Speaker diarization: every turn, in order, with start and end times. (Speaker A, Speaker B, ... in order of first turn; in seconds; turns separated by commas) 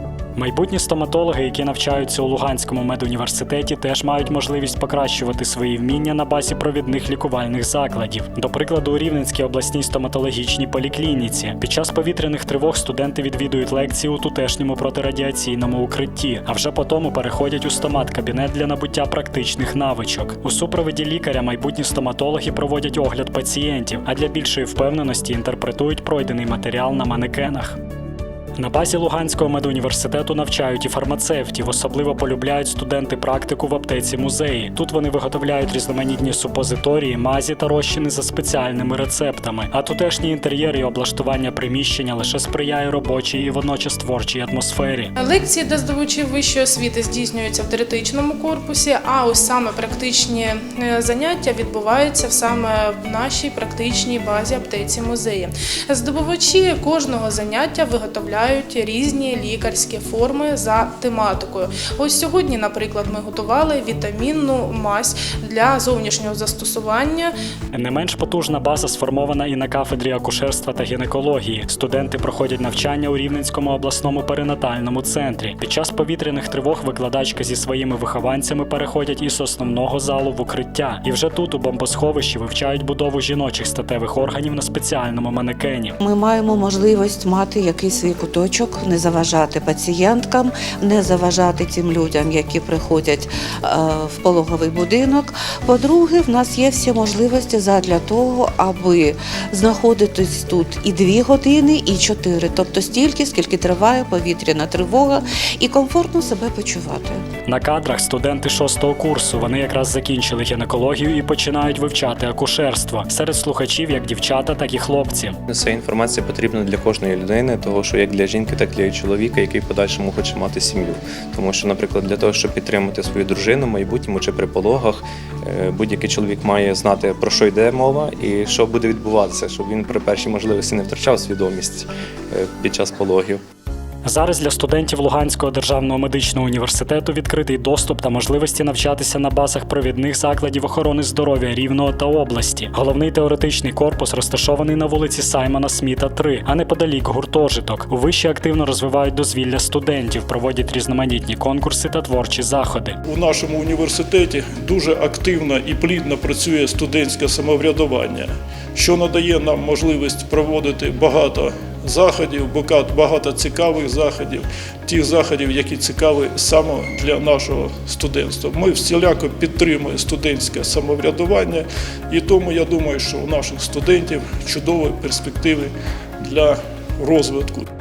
Speaker A: 0.3-27.8, Speaker A: 28.6-45.1, Speaker B: 45.2-67.3, Speaker A: 67.7-86.0, Speaker C: 86.0-107.2, Speaker A: 107.5-115.4, Speaker D: 115.5-133.4, Speaker A: 134.1-153.0, Speaker E: 153.1-177.7